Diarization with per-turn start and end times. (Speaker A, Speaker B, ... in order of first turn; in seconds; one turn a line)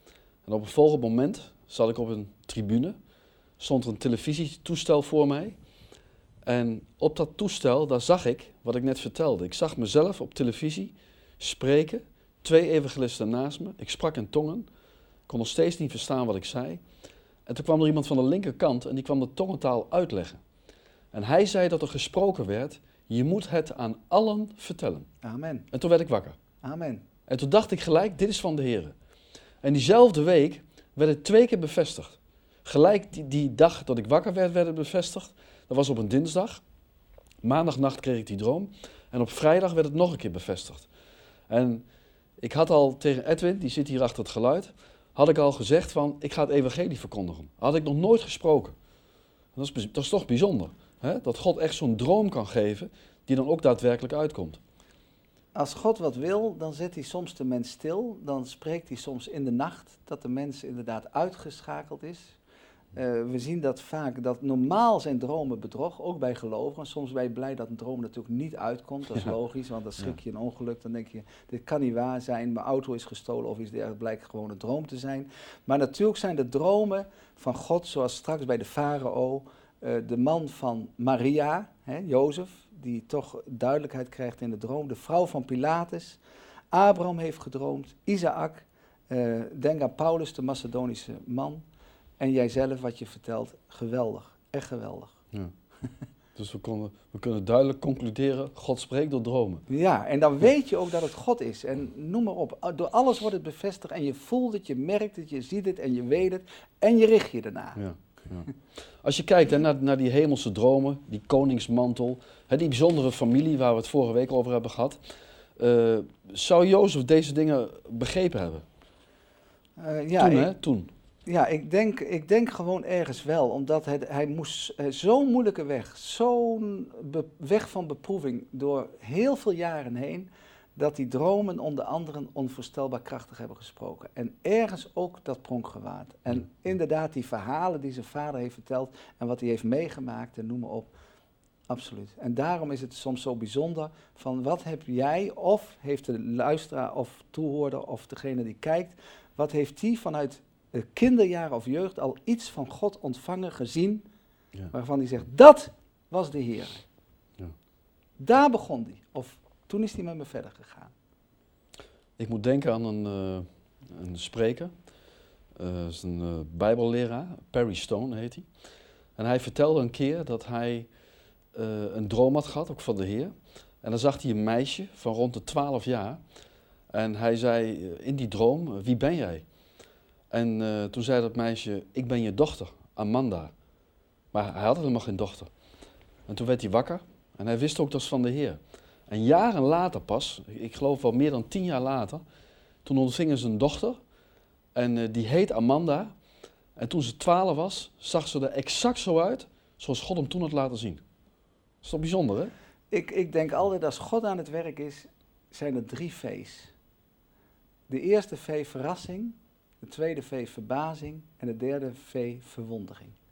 Speaker A: 0.4-3.0
Speaker A: 3.6-5.6
Speaker A: 6.4-14.7
Speaker A: 15.3-16.8
Speaker A: 17.4-20.4
Speaker A: 21.1-25.1
Speaker B: 25.2-25.7
Speaker A: 25.7-26.4
Speaker B: 26.6-27.0
Speaker A: 27.3-28.9
Speaker A: 29.6-36.6
Speaker A: 37.4-40.9
Speaker A: 41.5-41.8
Speaker A: 42.4-48.7
Speaker A: 49.5-54.6
Speaker B: 55.5-62.4
Speaker B: 62.9-86.2
Speaker B: 86.7-91.6
Speaker B: 92.2-95.2
Speaker A: 96.3-99.6
Speaker B: 99.7-107.8
Speaker A: 107.8-115.0
Speaker A: 115.6-118.6
Speaker B: 119.8-120.5
Speaker A: 120.2-120.9
Speaker B: 121.2-140.9
Speaker B: 141.7-154.1
Speaker B: 154.7-156.8
Speaker B: 158.2-160.9
Speaker A: 162.2-164.7
Speaker A: 165.6-168.5
Speaker A: 169.2-170.9
Speaker A: 171.5-176.2
Speaker A: 176.9-179.4
Speaker A: 180.3-183.5
Speaker A: 184.3-185.5
Speaker A: 186.3-192.2
Speaker A: 192.8-194.0
Speaker A: 194.7-196.1
Speaker A: 196.8-201.0
Speaker A: 201.8-202.5
Speaker B: 202.9-206.7
Speaker B: 207.9-213.2